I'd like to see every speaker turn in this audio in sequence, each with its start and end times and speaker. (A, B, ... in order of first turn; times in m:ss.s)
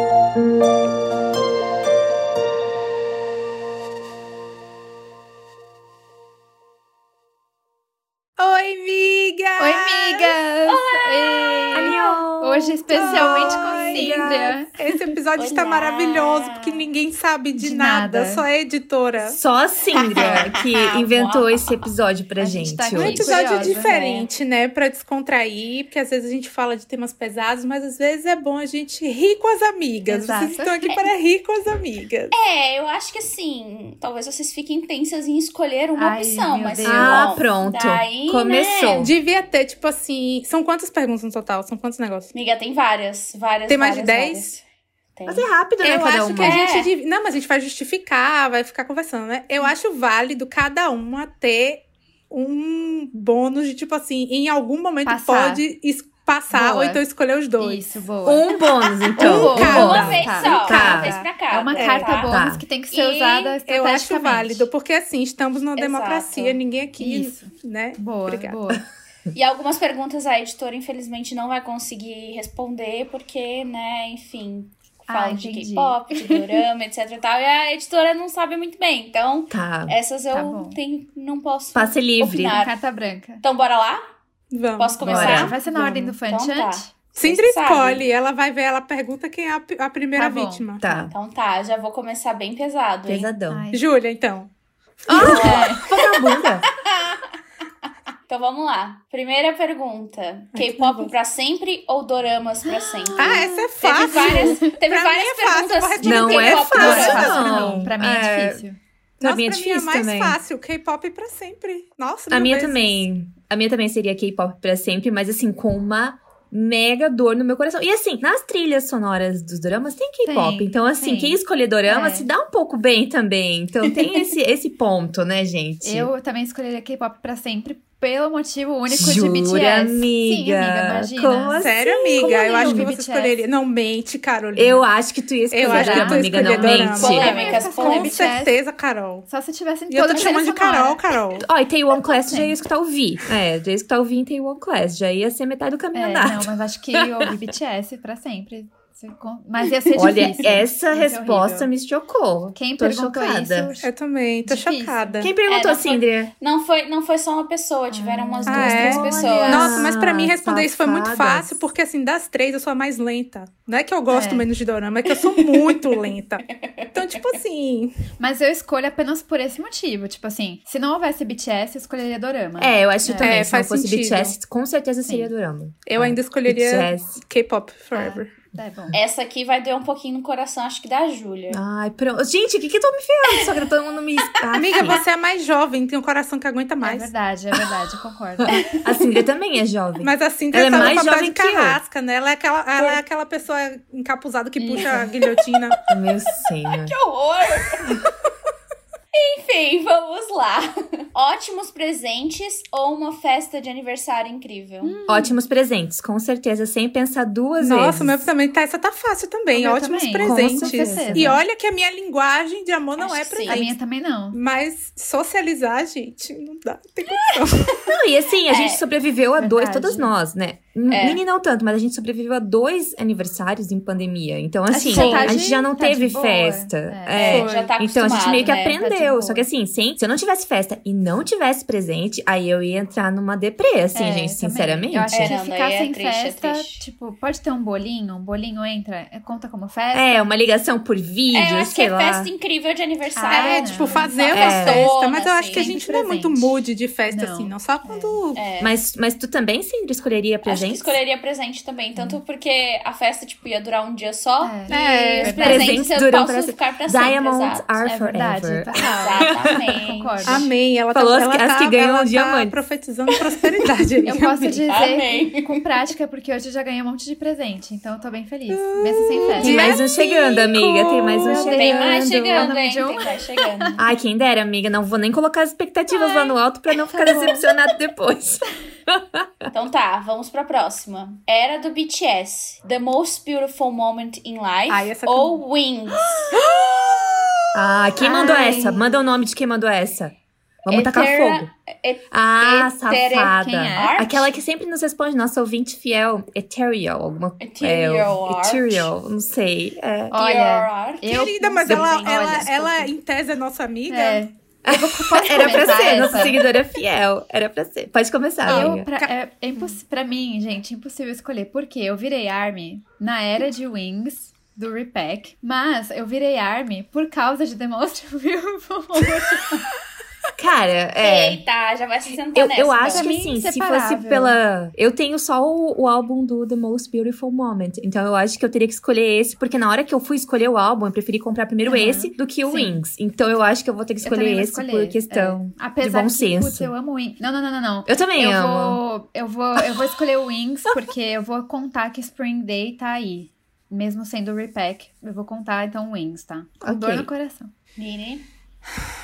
0:08.4-0:10.3 A
0:09.6-0:14.8 B
0:10.7-0:12.2 C
0:11.7-0:14.6 D
0:12.9-0:19.4 A
0:15.4-0:16.8 C
0:17.6-0:18.5 B
0:19.2-0:23.4 D
0:20.0-0:21.9 C
0:22.4-0:24.3 B
0:22.9-0:32.3 A
0:30.1-0:31.0 B
0:32.3-0:39.1 C
0:36.0-0:37.4 B
0:36.8-0:39.1 D
0:39.0-0:42.3 A
0:42.3-0:44.6 C
0:43.7-0:44.5 A
0:45.2-0:45.5 C
0:45.3-0:46.6 D
0:45.8-0:57.8 A
0:46.4-0:46.9 C
0:55.0-0:55.6 B
0:56.5-0:57.0 B
0:57.6-0:58.5 B
0:58.3-1:01.2 D
0:59.0-1:03.6 C
0:59.2-1:00.5 A
0:59.2-1:04.7 B
1:01.8-1:02.6 D
1:03.7-1:08.6 A
1:05.8-1:06.6 C
1:07.0-1:08.8 B
1:09.3-1:22.8 C
1:15.1-1:16.0 B
1:19.5-1:20.0 D
1:20.3-1:20.8 B
1:21.8-1:22.6 D
1:22.5-1:23.4 B
1:23.4-1:24.0 C
1:24.5-1:25.0 A
1:24.8-1:28.0 C
1:25.0-1:25.5 D
1:25.1-1:26.9 B
1:27.2-1:30.8 A
1:30.2-1:31.1 B
1:30.8-1:31.1 D
1:31.1-1:33.3 C
1:33.1-1:33.7 D
1:33.5-1:33.8 B
1:33.7-1:34.5 A
1:35.0-1:35.7 A
1:35.1-1:36.7 D
1:35.1-1:35.8 B
1:35.2-1:36.0 C
1:36.8-1:37.3 C
1:38.3-1:47.6 C
1:40.6-1:41.1 A
1:42.6-1:44.8 B
1:43.2-1:47.9 A
1:46.0-1:48.6 D
1:46.8-1:48.8 B
1:49.2-1:53.0 A
1:49.2-1:50.4 D
1:52.3-2:06.1 D
2:00.2-2:02.3 B
2:03.9-2:04.3 C
2:05.8-2:13.4 B
2:08.9-2:12.9 D
2:11.6-2:14.8 A
2:14.6-2:17.4 D
2:15.5-2:19.3 A
2:15.7-2:18.5 B
2:17.0-2:18.3 C
2:19.3-2:21.0 B
2:19.9-2:21.5 A
2:21.4-2:27.3 D
2:22.2-2:22.6 B
2:26.0-2:31.7 B
2:29.7-2:30.3 C
2:29.9-2:33.8 D
2:32.6-2:33.9 B
2:33.8-2:35.3 A
2:34.5-2:35.2 B
2:35.2-2:36.3 D
2:35.5-2:39.9 C
2:37.9-2:39.4 B
2:38.5-2:48.0 A
2:38.5-2:41.6 D
2:44.1-2:44.5 B
2:45.1-2:45.9 C
2:46.5-2:47.2 C
2:48.2-2:53.4 B
2:52.6-2:57.2 D
2:53.2-2:54.4 A
2:55.0-2:55.3 B
2:55.9-2:58.3 A
2:57.9-2:59.0 B
2:58.9-3:01.6 C
3:01.5-3:05.0 D
3:04.6-3:07.1 A
3:06.8-3:08.8 B
3:08.4-3:11.8 D
3:10.0-3:15.8 A
3:10.7-3:11.0 B
3:14.6-3:15.2 B
3:15.9-3:16.9 D
3:16.7-3:18.0 C
3:19.1-3:24.9 C
3:24.8-3:25.4 B
3:25.1-3:28.2 D
3:27.6-3:33.8 A
3:29.5-3:31.4 B
3:30.2-3:31.4 D
3:33.0-3:33.6 C
3:33.5-3:34.4 B
3:34.3-3:37.9 A
3:37.1-3:37.9 C
3:37.9-3:55.4 D
3:38.5-3:38.8 C
3:39.4-3:40.1 B
3:40.9-3:41.2 C
3:44.7-3:49.5 B
3:44.9-3:45.4 C
3:47.1-3:48.8 C
3:47.3-3:47.6 A
3:54.0-4:00.4 B
3:55.1-3:56.8 C
3:59.9-4:02.3 D
4:01.3-4:05.7 C
4:03.2-4:04.4 B
4:03.3-4:08.4 A
4:04.3-4:04.9 D
4:05.5-4:08.2 B
4:08.4-4:08.8 C
4:08.6-4:11.0 D
4:10.4-4:17.8 C
4:14.4-4:15.9 B
4:14.7-4:15.5 A
4:15.4-4:19.7 D
4:17.8-4:20.5 B
4:18.9-4:20.4 C
4:20.2-4:24.6 A
4:20.9-4:22.6 D
4:24.0-4:29.8 B
4:24.1-4:25.6 C
4:28.5-4:31.5 A
4:29.4-4:30.4 C
4:29.4-4:32.6 D
4:31.3-4:33.8 B
4:31.3-4:33.8 C
4:33.8-4:39.5 D
4:36.0-4:36.4 C
4:36.9-4:37.4 B
4:39.5-4:46.3 C
4:44.7-4:45.4 A
4:46.3-4:47.9 A
4:47.5-4:50.1 D
4:48.0-4:48.8 B
4:48.3-4:48.8 C
4:50.6-4:51.5 D
4:50.7-4:54.3 C
4:52.1-5:00.2 D
4:53.3-4:54.0 B
4:57.4-4:58.9 C
5:00.1-5:02.9 B
5:00.1-5:01.2 C
5:01.0-5:04.2 A
5:01.7-5:02.4 D
5:03.9-5:06.4 B
5:04.6-5:08.9 D
5:05.4-5:06.4 A
5:08.5-5:19.6 B
5:08.5-5:09.7 A
5:20.4-5:21.4 D
5:21.0-5:23.1 C
5:22.4-5:36.7 D
5:22.9-5:24.4 B
5:31.6-5:32.8 B
5:34.0-5:47.5 B
5:37.9-5:38.8 D
5:46.6-5:47.1 D
5:47.8-5:48.3 C